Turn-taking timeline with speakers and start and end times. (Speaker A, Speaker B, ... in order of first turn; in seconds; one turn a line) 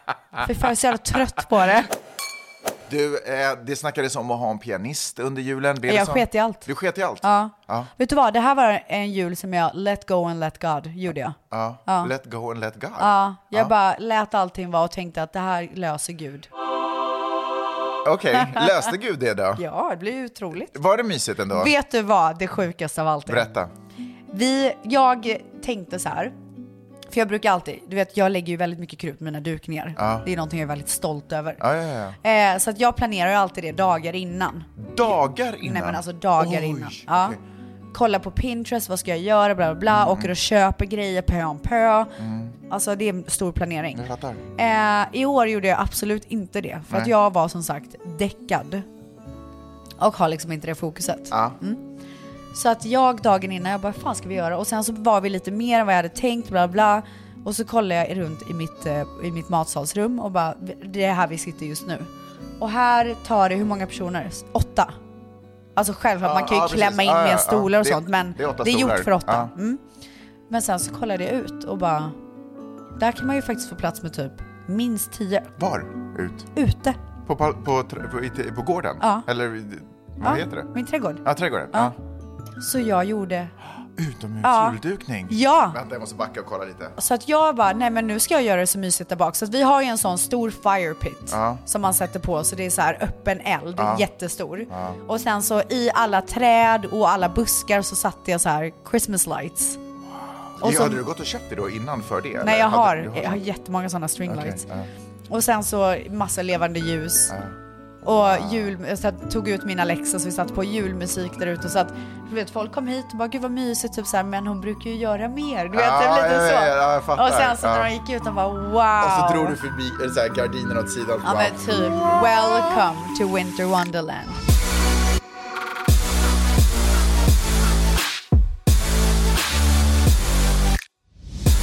Speaker A: 0.4-1.9
Speaker B: 2.9-7.9
Speaker A: 5.8-6.7
Speaker A: 7.2-12.1
Speaker B: 11.5-13.7
Speaker A: 13.0-16.5
Speaker B: 18.0-19.6
Speaker A: 19.6-20.7
Speaker B: 20.7-21.7
Speaker A: 21.5-23.5
Speaker B: 23.3-23.7
Speaker A: 24.3-26.3
Speaker A: 27.1-31.6
Speaker B: 29.9-30.2
Speaker B: 31.6-32.2
Speaker A: 32.2-34.7
Speaker B: 34.8-37.4
Speaker A: 35.6-37.4
Speaker A: 37.9-42.1
Speaker B: 39.9-40.3
Speaker B: 42.2-42.6
Speaker A: 42.7-44.0
Speaker B: 43.9-44.4
Speaker A: 44.6-48.8
Speaker A: 50.0-51.8
Speaker B: 51.3-51.6
Speaker A: 52.5-65.0
Speaker A: 65.8-69.8
Speaker B: 66.2-69.5
Speaker A: 70.5-72.2
Speaker A: 73.0-75.5
Speaker B: 75.6-76.5
Speaker A: 76.5-77.0
Speaker B: 77.2-80.7
Speaker A: 79.0-79.3
Speaker A: 80.2-81.9
Speaker B: 81.2-81.9
Speaker A: 82.6-83.5
Speaker B: 84.0-87.0
Speaker A: 84.4-84.8
Speaker A: 85.3-85.8
Speaker A: 87.0-99.8
Speaker B: 91.3-91.6
Speaker B: 93.8-94.1
Speaker B: 94.7-95.0
Speaker B: 100.5-103.4
Speaker A: 100.6-101.0
Speaker A: 102.4-104.6
Speaker B: 104.2-104.9
Speaker A: 105.3-107.3
Speaker B: 107.3-108.7
Speaker A: 108.0-119.5
Speaker B: 115.7-117.9
Speaker B: 119.0-121.6
Speaker A: 121.2-124.4